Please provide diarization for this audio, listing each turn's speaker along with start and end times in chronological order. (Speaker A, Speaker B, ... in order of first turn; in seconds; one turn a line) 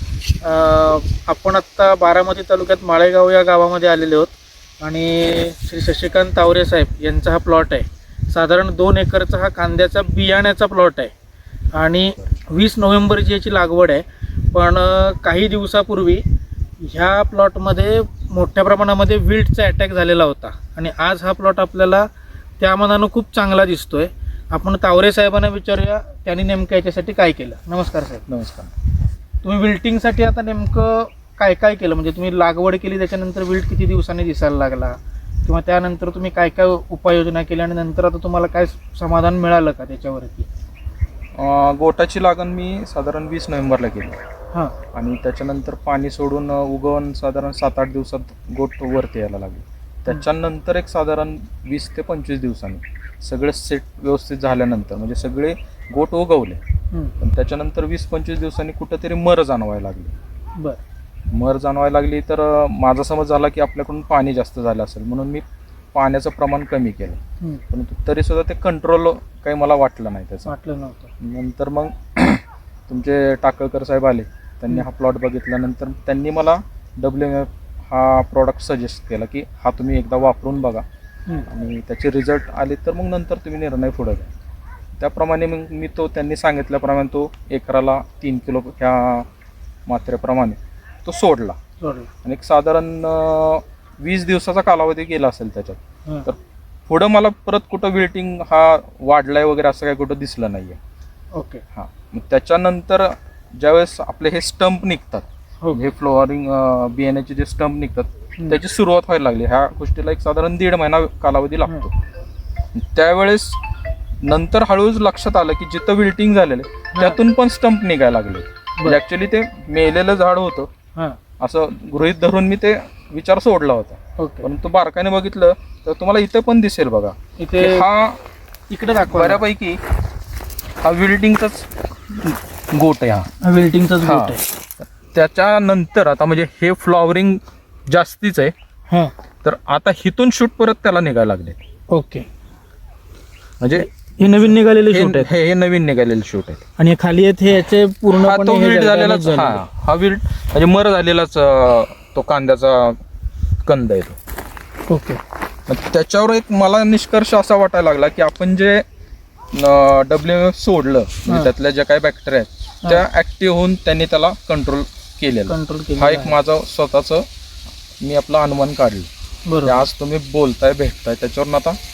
Speaker A: 0.4-11.1
Speaker A: 11.7-16.2
Speaker A: 16.8-22.1
Speaker A: 22.6-28.2
Speaker B: 28.3-28.7
Speaker A: 29.4-40.5
Speaker B: 41.4-44.2
Speaker B: 44.9-56.6
Speaker B: 57.2-60.1
Speaker B: 61.3-67.2
Speaker B: 67.7-70.5
Speaker A: 70.5-71.1
Speaker B: 71.2-80.8
Speaker B: 81.5-84.3
Speaker B: 85.0-89.2
Speaker B: 89.9-91.6
Speaker A: 91.8-92.1
Speaker B: 92.2-100.8
Speaker A: 101.3-101.6
Speaker B: 101.7-111.9
Speaker B: 112.7-113.6
Speaker B: 114.2-120.7
Speaker A: 116.9-117.2
Speaker B: 121.4-128.2
Speaker A: 124.2-124.5
Speaker A: 127.4-127.8
Speaker A: 128.7-129.4
Speaker B: 129.1-129.8
Speaker B: 130.8-133.3
Speaker A: 133.4-134.4
Speaker B: 134.0-138.5
Speaker B: 139.4-141.6
Speaker A: 141.9-142.2
Speaker B: 143.6-143.9
Speaker A: 143.7-145.3
Speaker B: 144.9-146.6
Speaker A: 146.8-149.6
Speaker B: 148.1-153.0
Speaker B: 153.6-154.2
Speaker A: 154.9-155.2
Speaker B: 155.7-158.8
Speaker B: 159.5-167.2
Speaker A: 165.5-166.3
Speaker B: 168.0-169.1
Speaker A: 169.5-169.9
Speaker B: 169.6-171.8